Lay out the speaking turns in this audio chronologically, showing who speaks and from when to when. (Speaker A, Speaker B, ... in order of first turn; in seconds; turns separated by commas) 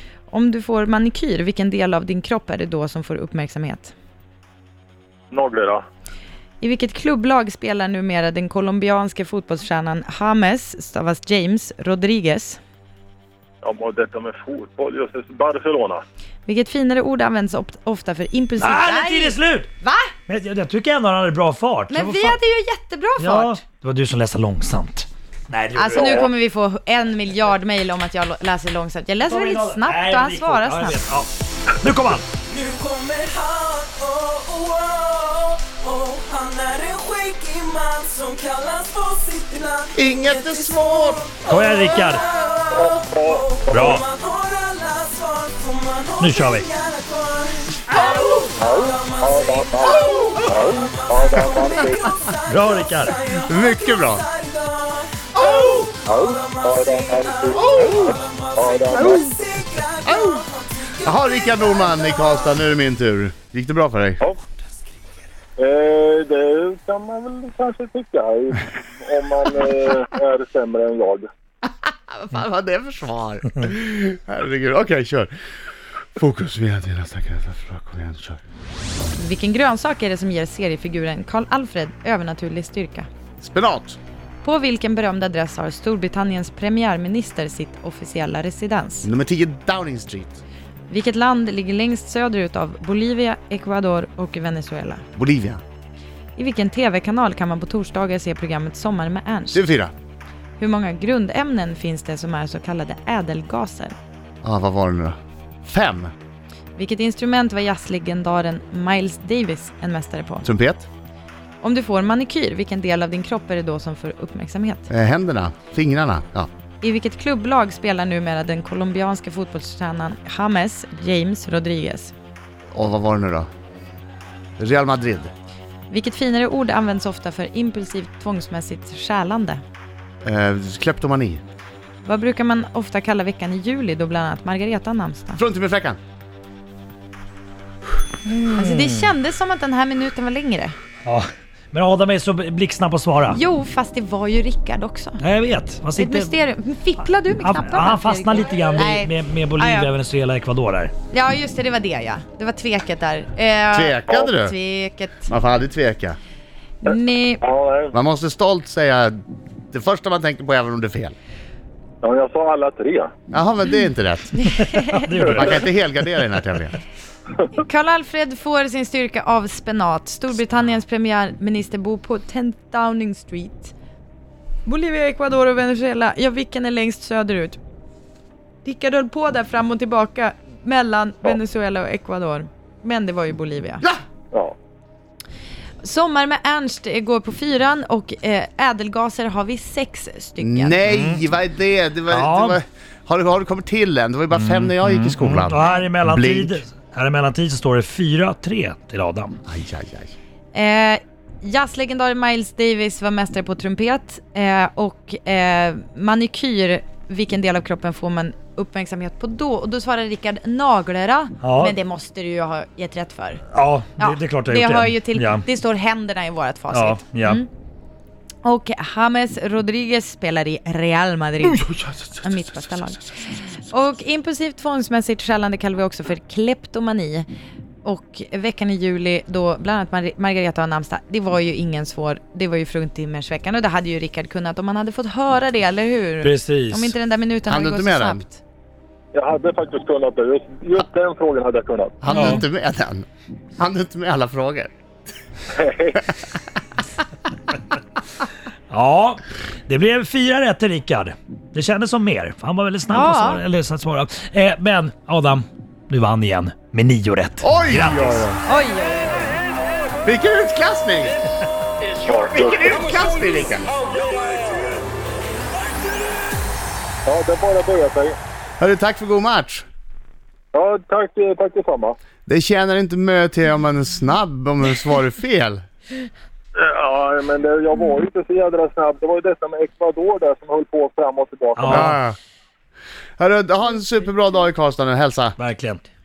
Speaker A: 0.3-3.9, Speaker B: 5.3-5.8, Speaker A: 6.6-12.6, Speaker B: 13.6-16.0, Speaker A: 16.5-20.1, Speaker C: 18.6-19.7, Speaker C: 20.3-22.4, Speaker A: 21.9-23.6, Speaker C: 23.2-26.3, Speaker A: 25.8-31.0, Speaker B: 26.0-26.3, Speaker C: 29.2-32.3, Speaker D: 32.5-62.4, Speaker E: 40.0-41.3, Speaker C: 41.5-42.2, Speaker B: 42.7-44.0, Speaker C: 43.7-44.0, Speaker C: 46.2-46.7, Speaker B: 48.6-52.1, Speaker E: 50.0-50.5, Speaker C: 52.5-53.2, Speaker E: 53.4-54.2, Speaker E: 55.4-55.8, Speaker B: 56.1-59.3, Speaker E: 57.5-58.2, Speaker E: 58.9-59.2, Speaker E: 60.0-60.4, Speaker E: 61.0-64.2, Speaker B: 65.6-71.3, Speaker E: 71.7-75.3, Speaker E: 76.2-78.4, Speaker A: 79.2-83.1, Speaker E: 83.4-84.0, Speaker A: 84.4-89.1, Speaker E: 89.0-90.4, Speaker A: 90.9-95.0, Speaker E: 95.2-95.6, Speaker A: 96.4-99.6, Speaker E: 99.5-99.9, Speaker A: 100.6-104.0, Speaker E: 104.4-106.1, Speaker A: 106.8-110.5, Speaker E: 110.4-110.9, Speaker A: 111.6-114.9, Speaker E: 114.9-116.5, Speaker A: 116.8-122.1, Speaker E: 122.7-123.5, Speaker E: 124.6-125.3, Speaker A: 125.9-129.6, Speaker E: 130.2-131.4, Speaker A: 132.1-135.4, Speaker E: 135.4-136.0, Speaker A: 138.2-140.8, Speaker C: 138.6-139.1, Speaker C: 141.1-143.4, Speaker A: 143.3-145.2, Speaker C: 145.2-146.3, Speaker A: 146.0-149.9, Speaker C: 147.4-150.9, Speaker A: 151.1-155.3, Speaker E: 153.7-154.6, Speaker E: 155.3-156.2, Speaker A: 156.8-157.4, Speaker B: 156.8-157.9, Speaker E: 157.9-159.2, Speaker E: 159.7-161.2, Speaker B: 162.0-163.1, Speaker E: 163.3-164.4, Speaker A: 164.4-165.1, Speaker C: 164.6-165.7, Speaker E: 165.2-166.8, Speaker B: 165.2-165.5, Speaker A: 167.5-173.7, Speaker A: 174.7-177.6, Speaker A: 178.6-183.9, Speaker A: 185.8-190.8, Speaker E: 190.4-196.6, Speaker C: 190.9-191.2, Speaker C: 192.1-192.6, Speaker C: 194.3-199.4, Speaker E: 199.5-200.1, Speaker A: 200.5-213.4, Speaker C: 211.4-211.8, Speaker C: 213.5-215.5, Speaker A: 214.0-217.5, Speaker C: 216.7-217.4, Speaker A: 218.4-221.7, Speaker E: 221.5-222.4, Speaker A: 222.2-227.3, Speaker E: 223.3-223.6, Speaker A: 227.8-238.4, Speaker C: 236.2-236.9, Speaker E: 237.5-238.2, Speaker B: 239.1-242.0, Speaker E: 242.0-243.1, Speaker A: 242.1-242.4, Speaker C: 242.1-242.4, Speaker E: 243.6-244.7, Speaker B: 245.5-246.0, Speaker C: 248.7-258.2, Speaker A: 252.9-253.4, Speaker E: 257.4-258.4, Speaker A: 258.5-259.2, Speaker E: 260.0-261.2, Speaker E: 262.0-263.7, Speaker B: 262.1-262.7, Speaker B: 267.1-268.2, Speaker E: 268.6-269.6, Speaker B: 270.5-272.0, Speaker E: 272.3-275.6, Speaker B: 276.6-281.9, Speaker C: 281.6-282.0, Speaker E: 281.7-282.2, Speaker E: 283.2-285.4, Speaker C: 285.4-285.8